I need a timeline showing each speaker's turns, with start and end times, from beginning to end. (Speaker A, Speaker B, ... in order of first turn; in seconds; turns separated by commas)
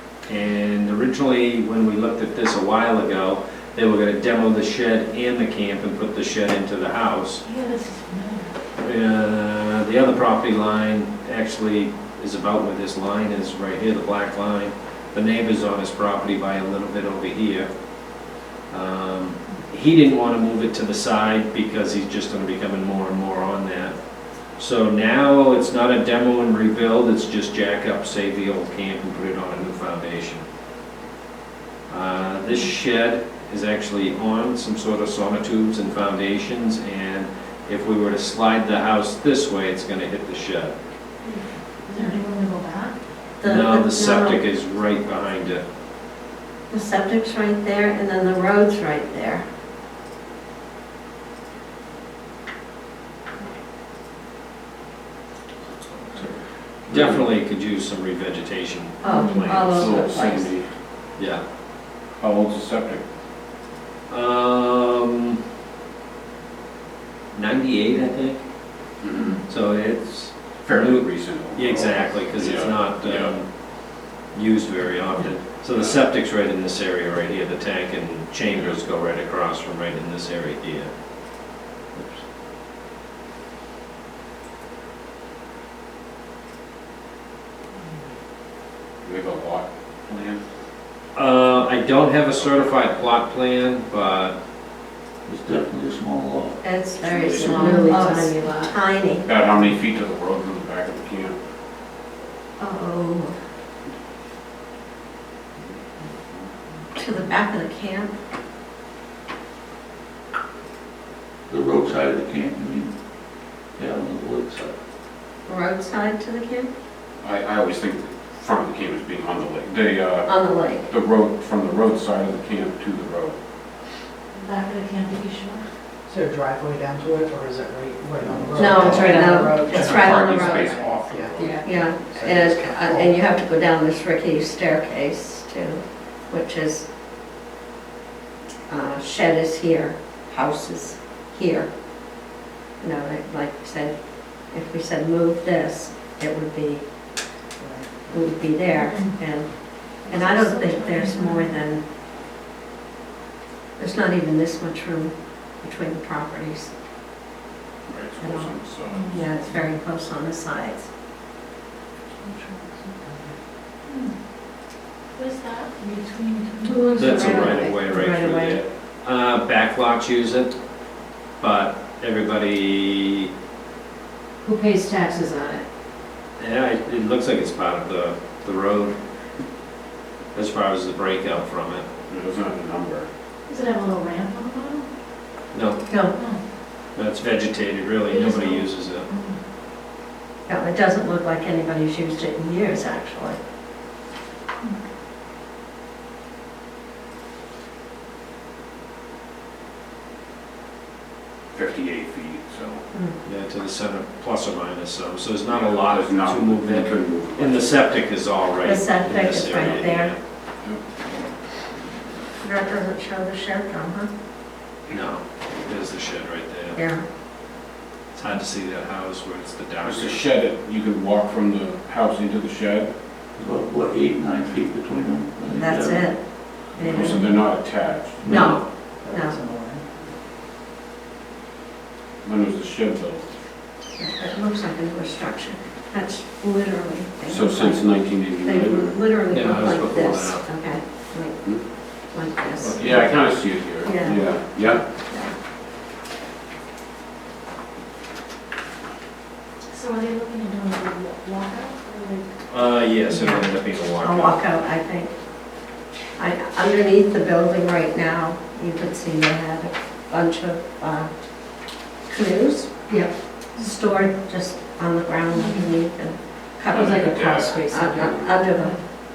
Speaker A: 0.2-7.4, Speaker B: 7.4-8.5, Speaker A: 8.8-17.7, Speaker A: 18.7-24.0, Speaker A: 24.6-30.4, Speaker A: 31.9-40.7, Speaker B: 41.2-43.0, Speaker C: 43.4-44.4, Speaker A: 43.4-45.6, Speaker C: 46.7-49.4, Speaker A: 56.9-59.9, Speaker C: 59.0-60.5, Speaker B: 59.0-59.6, Speaker D: 59.3-60.7, Speaker A: 61.2-61.4, Speaker D: 62.2-63.0, Speaker A: 64.1-65.4, Speaker A: 67.3-68.5, Speaker D: 69.0-69.4, Speaker A: 69.5-73.5, Speaker D: 70.6-73.3, Speaker A: 74.3-80.9, Speaker D: 75.7-76.0, Speaker D: 78.5-78.8, Speaker A: 81.9-82.2, Speaker D: 89.0-90.4, Speaker A: 91.1-94.4, Speaker E: 95.2-96.6, Speaker C: 96.6-99.3, Speaker D: 97.0-97.6, Speaker B: 97.3-98.7, Speaker D: 99.2-101.4, Speaker C: 102.6-103.4, Speaker C: 107.0-108.1, Speaker E: 111.5-112.9, Speaker E: 113.8-114.7, Speaker C: 115.5-116.7, Speaker D: 117.2-123.3, Speaker C: 120.2-120.9, Speaker B: 124.3-125.6, Speaker F: 126.1-133.1, Speaker C: 128.6-130.7, Speaker D: 128.9-131.6, Speaker C: 131.6-136.8, Speaker C: 138.7-141.7, Speaker C: 142.8-146.8, Speaker F: 147.6-148.3, Speaker C: 148.1-151.8, Speaker B: 148.7-149.2, Speaker B: 150.0-151.6, Speaker C: 153.8-156.7, Speaker D: 157.9-159.3, Speaker C: 158.2-158.5, Speaker B: 158.9-159.2, Speaker C: 159.1-160.9, Speaker B: 162.2-162.9, Speaker B: 163.9-164.1, Speaker B: 165.2-167.8, Speaker C: 166.7-168.6, Speaker A: 167.0-170.6, Speaker A: 171.4-173.3, Speaker B: 174.4-175.6, Speaker A: 176.4-179.0, Speaker A: 180.3-181.8, Speaker D: 182.1-183.1, Speaker B: 183.5-184.9, Speaker A: 185.5-185.8, Speaker C: 185.9-186.2, Speaker B: 186.1-186.4, Speaker A: 186.9-189.1, Speaker B: 188.1-189.4, Speaker C: 190.5-193.4, Speaker D: 201.5-202.8, Speaker C: 202.9-203.2, Speaker A: 203.2-210.2, Speaker D: 205.5-207.9, Speaker C: 208.6-210.1, Speaker D: 209.5-209.8, Speaker C: 212.4-214.1, Speaker A: 214.9-216.8, Speaker C: 216.7-217.0, Speaker A: 218.1-220.2, Speaker D: 219.8-222.9, Speaker E: 223.4-226.1, Speaker C: 225.5-226.2, Speaker C: 226.7-227.4, Speaker D: 226.9-228.5, Speaker C: 228.2-228.6, Speaker A: 228.2-228.6, Speaker F: 229.0-229.8, Speaker C: 229.1-229.4, Speaker D: 232.2-233.2, Speaker C: 234.0-241.4, Speaker D: 237.2-239.0, Speaker A: 239.3-240.4, Speaker C: 242.1-243.2, Speaker A: 242.6-243.0, Speaker D: 242.8-244.8, Speaker C: 243.8-245.3, Speaker B: 249.7-252.2, Speaker A: 252.5-254.4, Speaker C: 253.1-255.1, Speaker C: 256.2-261.1, Speaker C: 262.1-268.8, Speaker B: 265.3-265.7, Speaker D: 266.7-268.4, Speaker B: 266.7-268.8